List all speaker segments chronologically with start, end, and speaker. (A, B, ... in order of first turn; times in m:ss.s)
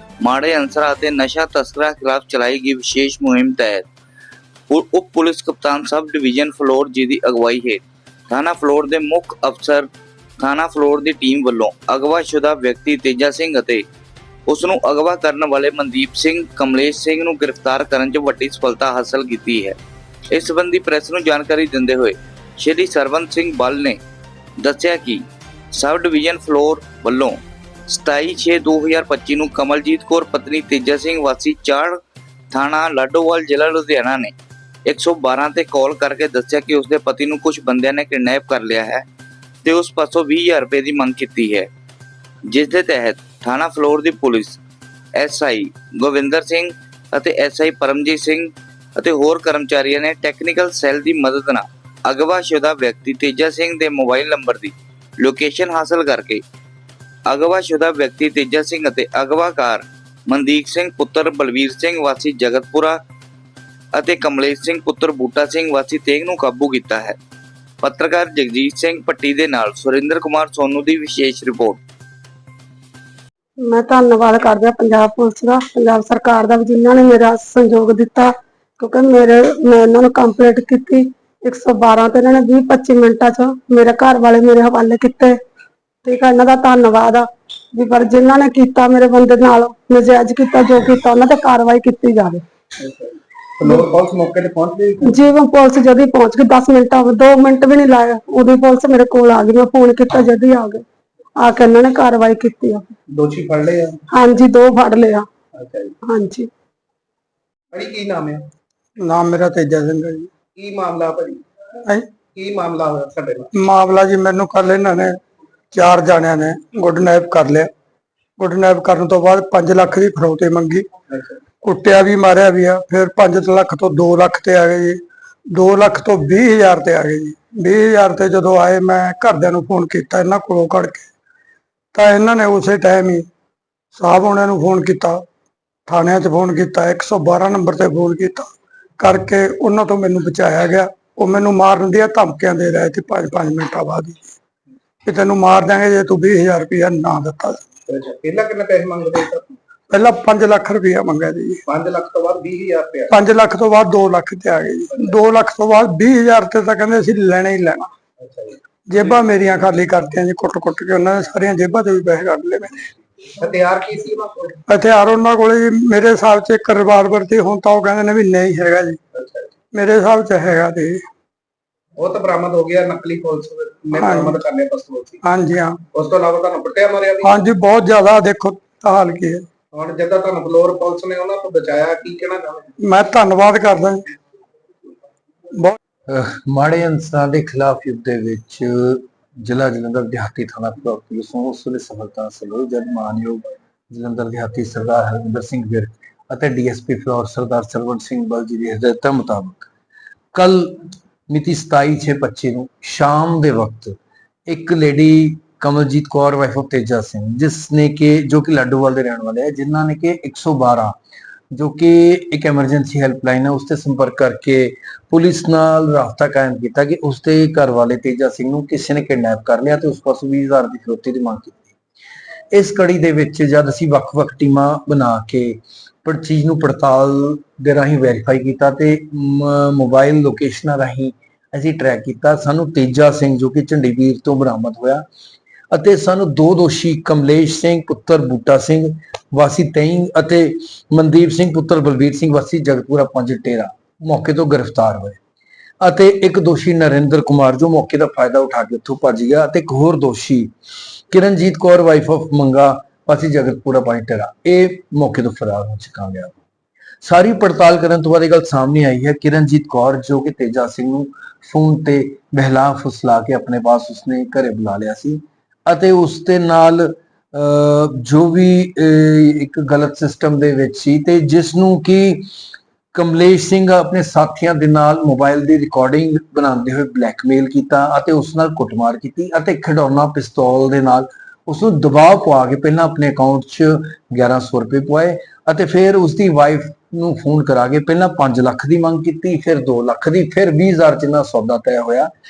0:00.2-0:03.8 A
0:04.7-0:09.9 A
0:10.4-0:13.8 A
0:14.5-0:19.8 A
0:20.3-0:24.0 A
0:24.6-0:32.0 A
0:32.5-0:34.3 A
0:34.9-0:39.0 A
0:39.6-0:41.7 A
0:42.5-0:44.6 A
0:45.2-0:56.4 A
0:57.3-1:03.0 A
1:03.9-1:07.2 A
1:07.8-1:11.8 A
1:13.6-1:25.4 B
1:26.0-1:32.4 B
1:32.8-1:35.2 C
1:35.0-1:40.8 B
1:41.4-1:42.9 B
1:43.1-1:44.0 C
1:44.1-1:45.3 B
1:45.5-1:45.9 C
1:46.0-1:46.5 B
1:47.7-1:48.4 C
1:49.0-1:50.3 D
1:50.5-1:51.4 C
1:52.2-1:53.5 C
1:53.5-1:55.2 D
1:55.7-1:57.7 D
1:58.4-2:00.9 D
2:01.1-2:01.4 C
2:01.6-2:05.0 D
2:05.5-2:11.1 D
2:11.9-2:13.2 D
2:13.9-2:15.2 D
2:15.9-2:24.3 D
2:25.0-2:27.6 D
2:27.9-2:29.6 C
2:29.9-2:31.6 D
2:31.6-2:33.2 C
2:33.1-2:37.9 D
2:38.2-2:39.2 C
2:38.9-2:42.8 D
2:43.3-2:44.6 C
2:44.7-2:49.0 D
2:49.1-2:49.5 C
2:49.7-2:51.0 D
2:52.0-2:55.2 C
2:53.9-2:54.4 D
2:55.2-2:55.8 D
2:55.9-2:57.4 C
2:57.2-2:59.4 D
2:59.7-3:02.7 C
3:02.8-3:04.0 D
3:06.1-3:19.7 E
3:20.3-3:31.0 E
3:31.5-3:41.7 E
3:42.5-3:55.0 E
3:55.7-4:05.2 E
4:05.8-4:10.5 E
4:11.1-4:16.4 E
4:17.0-4:32.3 E
4:32.9-4:52.1 E